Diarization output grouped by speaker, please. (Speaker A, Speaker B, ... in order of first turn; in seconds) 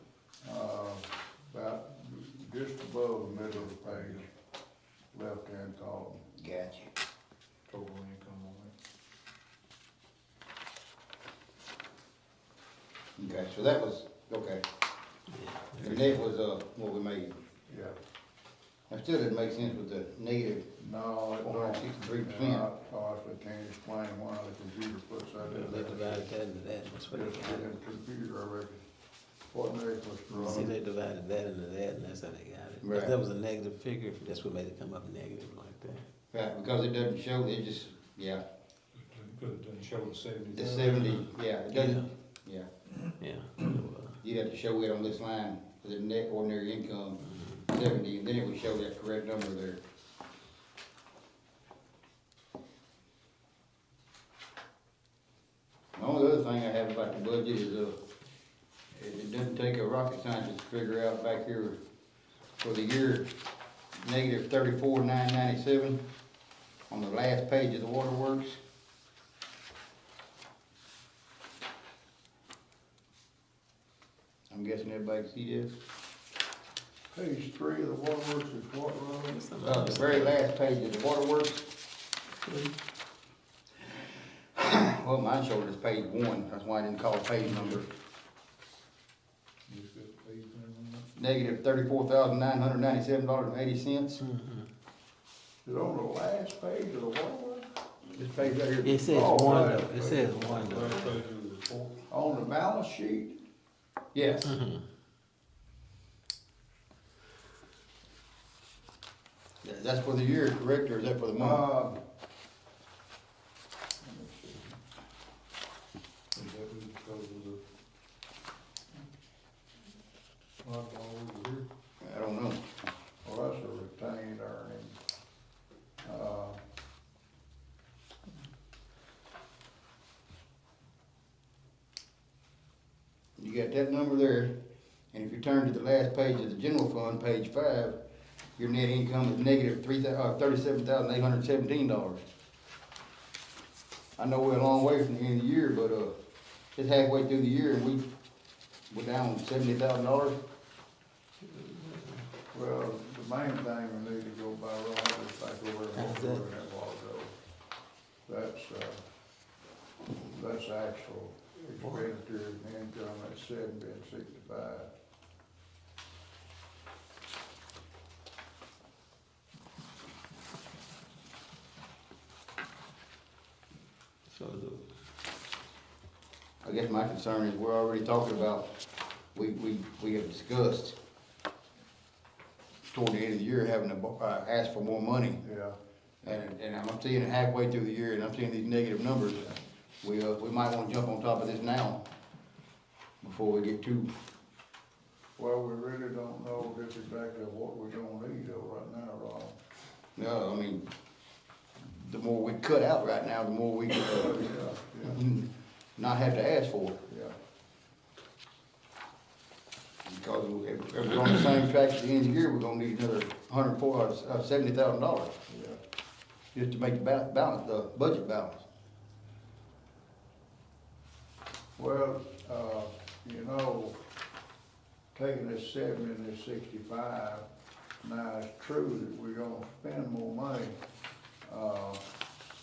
Speaker A: 0.4-4.3, 5.1-6.2, 17.7-18.0, 20.8-26.3, 27.1-28.8, 29.5-30.7, 77.1-79.5, 95.7-97.7, 99.0-100.8, 102.1-103.4, 111.4-112.0, 114.0-114.8, 123.2-125.0, 126.0-126.6, 152.5-157.3, 158.3-159.0, 160.1-164.9, 185.4-185.8, 195.4-199.6, 204.2-205.2, 207.1-207.3, 215.5-215.8, 221.8-224.0, 225.1-227.4, 228.0-230.8, 231.5-232.0
Speaker B: 6.3-6.9, 13.2-14.6, 15.8-17.4, 18.9-20.7, 21.4-22.7, 32.8-33.1, 36.3-38.4, 40.5-42.7, 44.2-49.8, 56.0-58.0, 58.9-61.8, 62.6-63.3, 64.0-66.0, 66.9-68.6, 74.5-75.7, 79.6-81.7, 84.6-87.9, 91.2-94.2, 98.1-99.8, 104.1-104.5, 109.6-111.6, 122.0-122.7, 133.4-134.5, 135.1-138.0, 138.6-142.2, 144.2-146.1, 146.8-148.1, 148.9-150.4, 176.6-178.7, 179.3-181.0, 182.9-185.4, 186.2-192.1, 193.2-194.1, 200.2-200.8, 201.9-207.0, 210.1-215.3, 216.5-218.7
Speaker C: 7.7-8.7, 39.0-41.3, 87.5-87.8, 89.7-91.1, 100.4-102.0, 116.3-117.6, 120.6-121.6
Speaker D: 15.3-16.1, 25.4-27.7, 30.3-36.0, 41.7-42.1, 43.2-44.2, 47.3-47.6, 79.3-80.4, 82.4-82.8, 94.2-94.7, 98.8-101.2, 104.4-104.8, 151.4-152.3, 155.9-156.4, 174.3-174.9